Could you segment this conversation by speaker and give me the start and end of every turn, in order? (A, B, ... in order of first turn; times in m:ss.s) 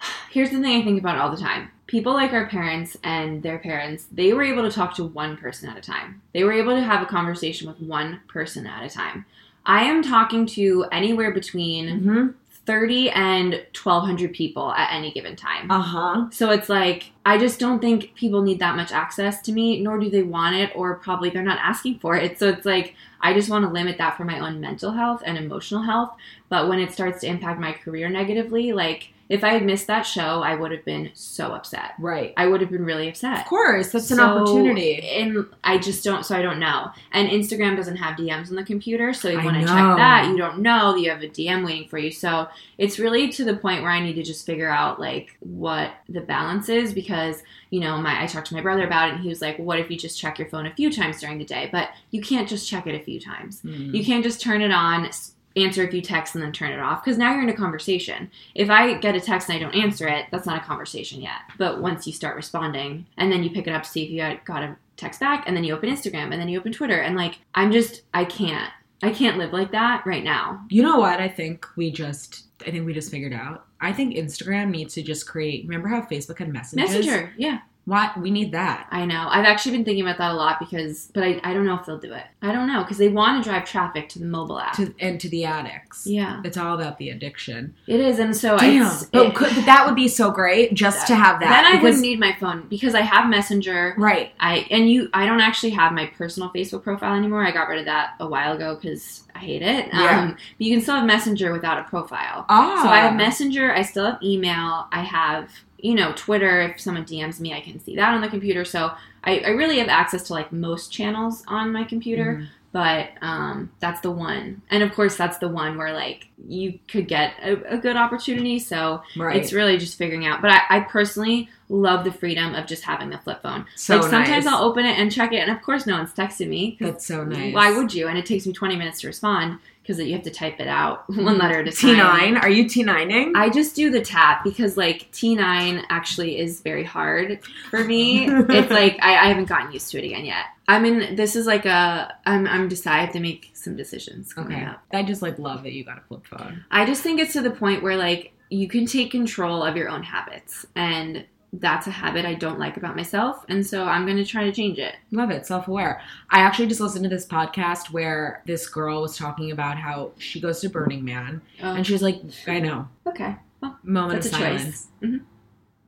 0:00.3-0:12.0 A
0:11.9-0:12.3 B
0:12.5-0:15.7 A
0:15.7-0:16.3 B
0:16.3-1:10.7 A
0:32.0-0:32.3 B
0:33.4-0:35.1 B
0:39.3-0:40.4 B
0:53.6-0:54.0 B
1:10.7-1:17.2 B
1:16.7-1:17.6 A
1:17.8-1:18.9 B
1:18.9-1:24.8 A
1:24.7-1:27.7 B
1:26.0-1:26.4 A
1:27.9-1:29.7 A
1:28.6-1:32.0 B
1:30.9-2:12.3 A
1:34.0-1:34.3 B
1:39.9-1:40.2 B
1:42.5-1:43.3 B
1:52.1-1:52.5 B
1:59.1-1:59.5 B
2:03.8-2:04.6 B
2:06.8-2:07.8 B
2:11.2-2:13.4 B
2:13.3-2:24.8 A
2:18.2-2:18.8 B
2:24.4-2:26.6 B
2:26.7-2:35.0 A
2:35.1-2:42.9 B
2:41.6-2:41.9 A
2:43.0-2:45.2 A
2:43.8-2:44.8 B